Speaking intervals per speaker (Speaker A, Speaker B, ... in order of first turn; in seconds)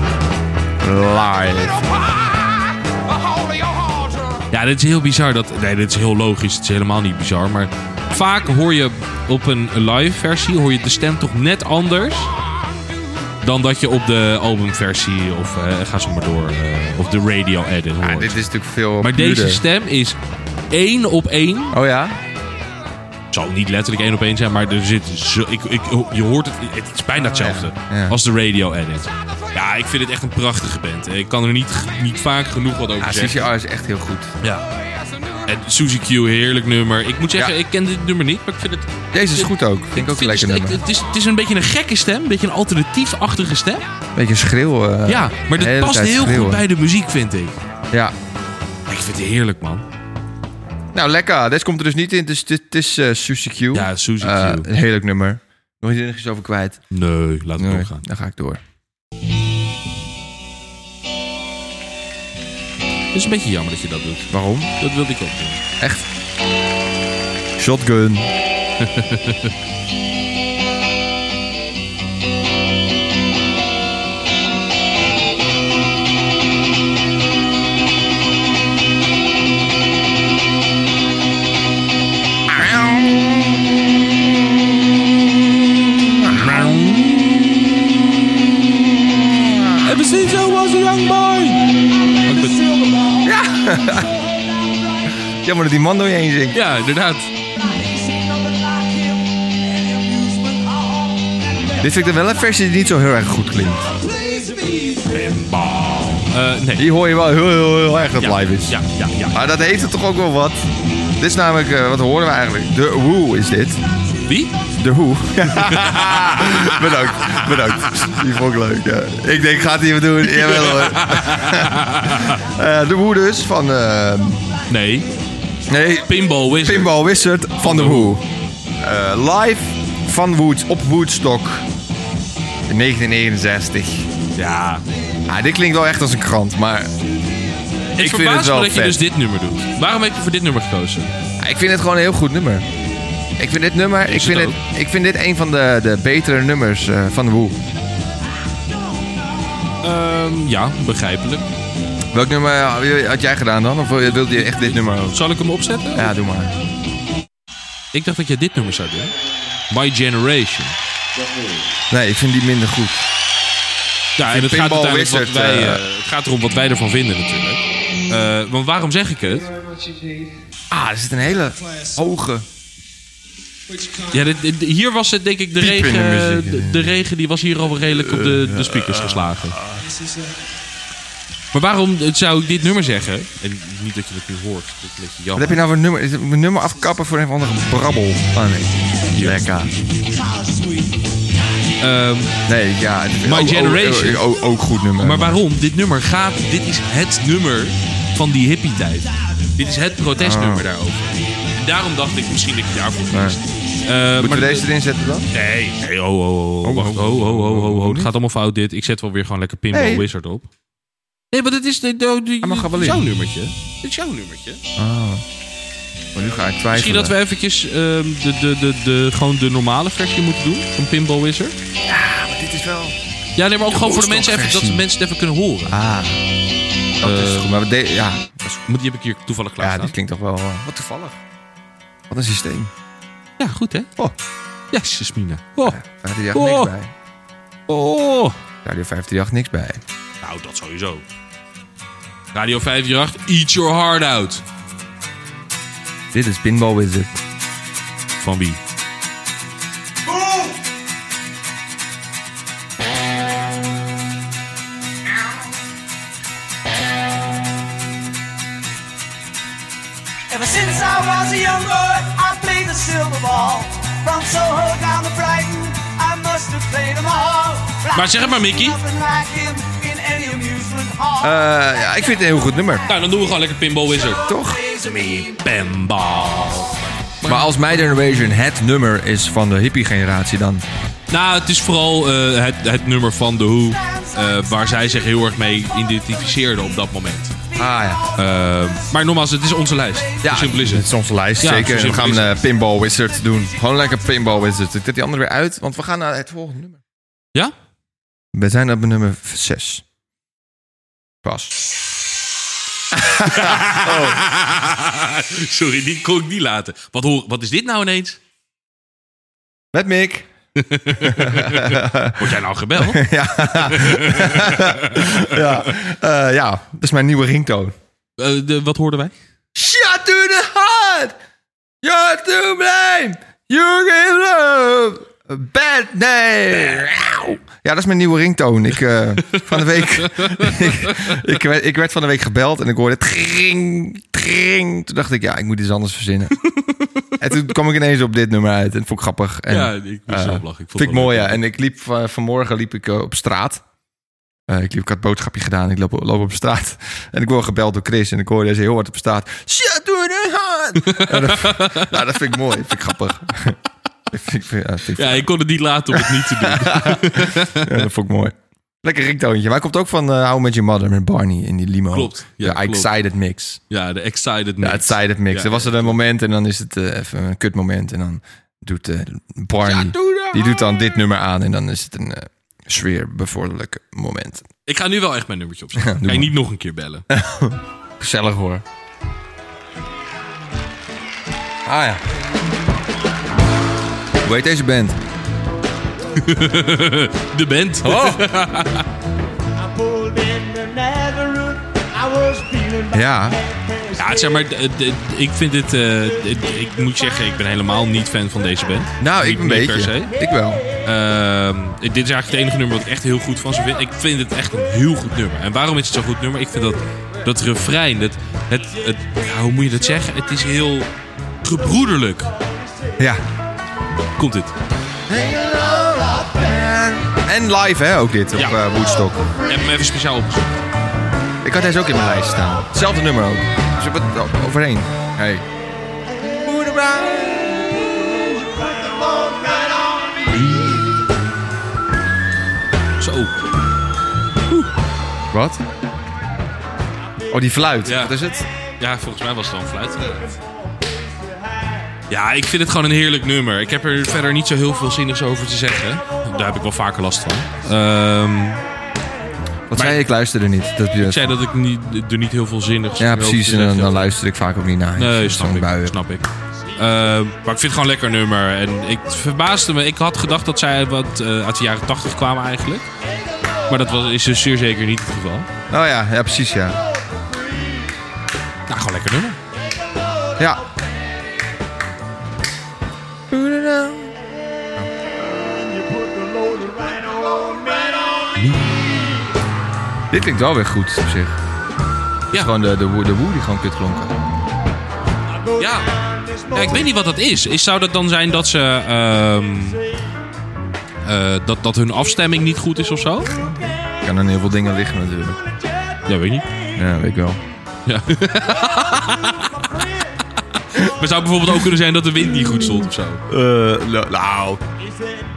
Speaker A: 0.8-1.9, 18.0-19.6, 21.7-22.2, 27.1-28.2, 33.0-34.3, 39.1-40.8, 44.1-46.6, 50.9-56.8, 57.6-58.6, 64.3-64.7, 65.8-66.1, 67.6-68.3, 82.5-83.3, 85.9-89.9, 93.2-94.1, 95.3-96.6, 101.8-103.9, 106.8-108.8, 109.3-110.6, 111.2-113.8, 114.7-124.4, 125.7-128.2, 128.8-131.7, 132.7-134.1, 135.3-136.9, 138.0-139.0, 141.4-142.7, 143.4-147.6, 152.1-155.2, 155.9-156.6, 161.9-163.0, 164.3-165.8, 170.7-172.4, 175.6-177.0, 177.9-179.8, 185.3-189.7, 192.4-195.4, 200.2-200.7, 203.1-203.4, 204.2-205.3, 206.6-208.1, 209.7-210.1, 212.4-213.1, 214.8-215.2, 216.1-217.2, 221.9-223.0, 223.7-224.8, 225.7-226.2, 227.0-228.6, 229.6-231.2, 232.1-232.7, 235.6-236.9, 238.6-239.8, 246.1-247.1, 271.2-272.9, 274.2-274.6, 277.2-280.6, 287.6-288.0, 290.2-296.8, 298.3-299.8, 301.2-301.6, 302.9-304.2, 309.7-310.3, 311.0-317.7, 319.5-321.1, 321.8-336.4, 337.2-343.6, 344.5-353.6, 354.1-355.3, 355.9-363.6, 364.6-374.4, 375.8-376.3, 377.1-378.6, 381.6-382.0, 384.2-385.0, 387.8-388.3, 392.9-393.4, 399.0-400.6, 415.1-419.3, 421.4-425.4, 426.4-428.5, 435.3-435.6, 437.3-438.4, 449.7-451.3, 453.0-456.0, 465.7-466.8, 470.4-470.6, 473.3-474.1, 480.1-481.4, 482.3-484.2, 486.6-486.9, 493.8-495.4, 496.7-497.4, 503.3-504.6
Speaker B: 4.5-12.3, 13.4-18.4, 19.0-20.2, 20.7-21.8, 23.3-33.5, 35.4-43.9, 45.0-47.6, 48.9-49.8, 53.7-54.7, 56.9-58.0, 63.1-65.6, 68.8-69.5, 86.3-87.4, 89.8-92.7, 96.5-97.3, 105.0-106.9, 108.2-109.4, 114.2-114.6, 115.5-116.9, 120.2-122.4, 124.7-125.1, 126.0-127.0, 127.6-128.1, 134.3-134.8, 137.9-141.1, 144.1-144.6, 149.8-151.4, 155.1-156.1, 157.9-159.1, 159.7-160.8, 164.2-169.5, 174.1-179.6, 181.5-185.6, 189.1-189.4, 191.8-192.4, 193.2-194.2, 195.0-204.7, 205.3-210.5, 211.3-214.6, 216.7-221.6, 223.3-225.7, 227.0-227.6, 228.7-229.9, 233.4-233.9, 234.7-235.8, 236.3-236.7, 237.7-238.4, 240.2-241.0, 242.3-244.4, 248.2-248.6, 267.9-268.8, 272.9-277.5, 281.1-287.4, 288.1-292.4, 303.2-308.2, 310.6-315.6, 318.2-319.1, 329.3-331.1, 336.5-336.9, 339.5-341.4, 350.8-352.0, 354.9-357.8, 361.9-362.9, 363.7-366.0, 369.6-370.6, 374.6-377.1, 386.1-388.9, 393.9-400.1, 400.8-410.9, 411.4-412.3, 414.2-414.5, 419.4-420.6, 433.0-433.3, 437.8-438.2, 438.8-440.3, 442.1-448.6, 451.0-454.1, 454.9-462.9, 463.7-465.5, 468.7-469.4, 478.4-478.7, 485.6-485.9, 486.5-489.8, 491.0-493.4, 496.1-496.5, 497.9-499.7, 500.4-503.2
Speaker C: 92.5-93.3, 97.6-101.8, 104.0-105.0, 260.3-271.4, 274.3-275.2, 389.8-392.9, 475.9-478.1